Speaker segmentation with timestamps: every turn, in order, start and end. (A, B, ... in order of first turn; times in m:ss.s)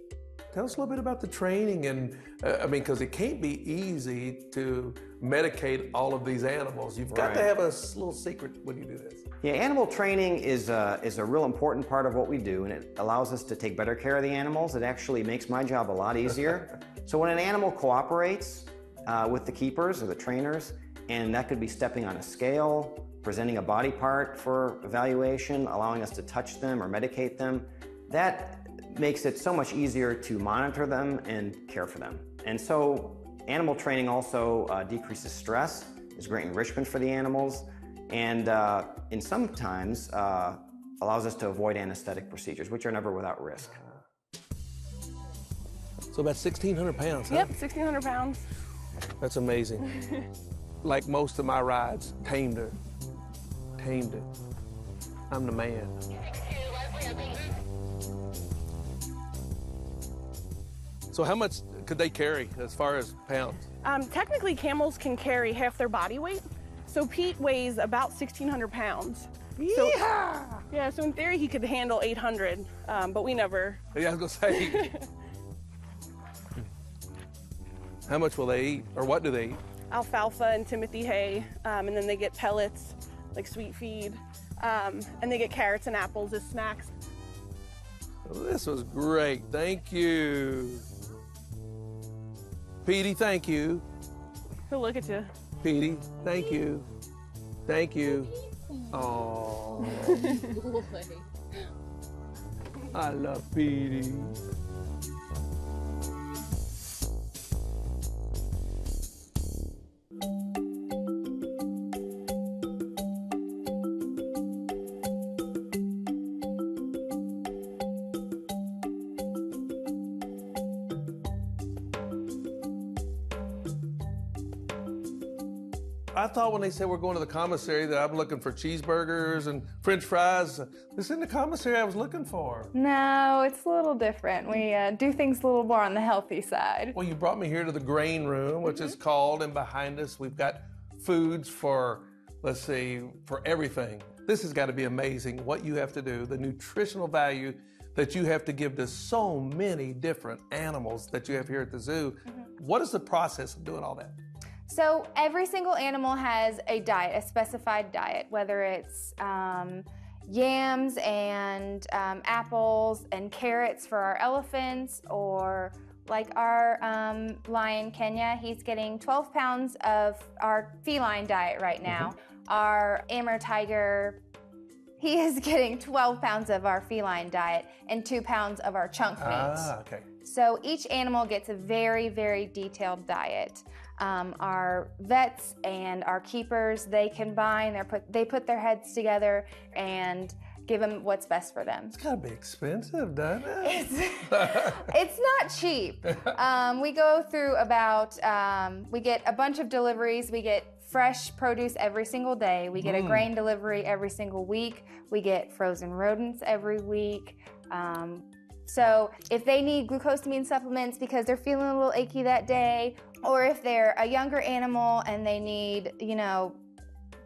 0:00.5-0:09.2 A
0:07.1-0:07.5 B
0:09.4-0:43.8 B
0:43.7-0:44.0 A
0:46.1-0:47.5 A
0:47.3-0:48.4 C
0:49.2-0:50.0 A
0:50.8-0:52.8 A
0:53.8-0:54.3 A
0:55.3-0:56.0 A
1:01.1-1:03.7 A
1:03.8-1:10.0 C
1:09.6-1:10.7 A
1:10.7-1:13.8 C
1:13.9-1:15.0 A
1:14.6-1:15.1 C
1:18.1-1:19.6 A
1:19.9-1:26.9 C
1:28.2-1:30.9 A
1:32.8-1:33.8 A
1:34.7-1:35.3 C
1:35.6-1:36.9 A
1:37.7-1:38.3 A
1:38.9-1:40.6 A
1:42.9-1:44.4 A
2:06.1-2:12.7 A
2:12.7-2:17.0 D
2:16.9-2:34.2 A
2:34.7-2:54.2 D
2:55.0-2:59.7 D
2:59.2-3:00.1 A
3:00.2-3:11.9 D
3:11.9-3:14.9 A
3:13.6-3:36.6 D
3:22.8-3:23.3 A